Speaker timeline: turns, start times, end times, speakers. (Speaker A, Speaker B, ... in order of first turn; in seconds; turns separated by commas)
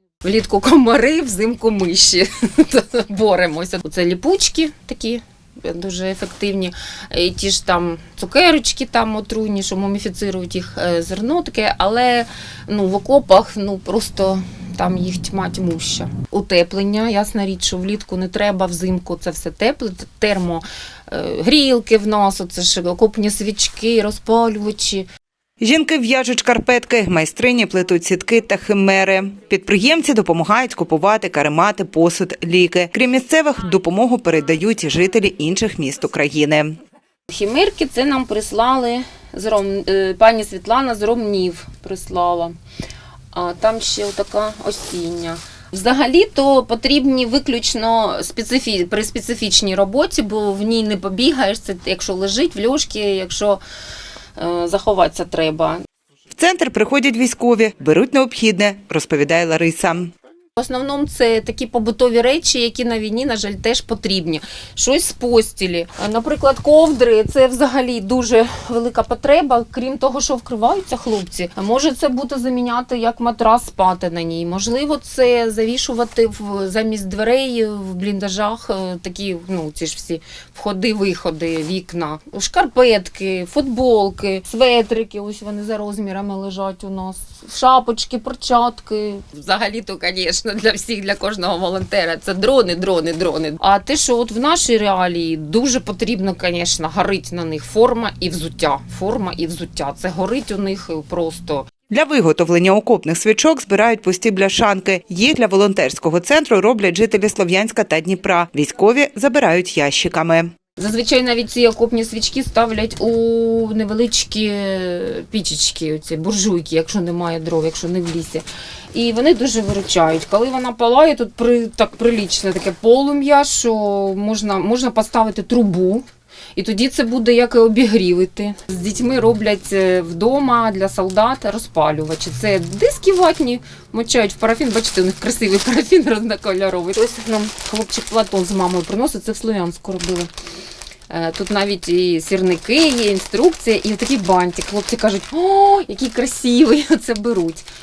Speaker A: 0.2-25.1, Speaker B: 25.6-36.7, Speaker A: 37.3-42.5, Speaker A: 43.3-53.6, Speaker A: 54.4-55.8, Speaker B: 56.3-60.1, Speaker A: 60.6-101.7, Speaker B: 101.9-110.5, Speaker A: 110.8-140.3, Speaker A: 141.1-147.7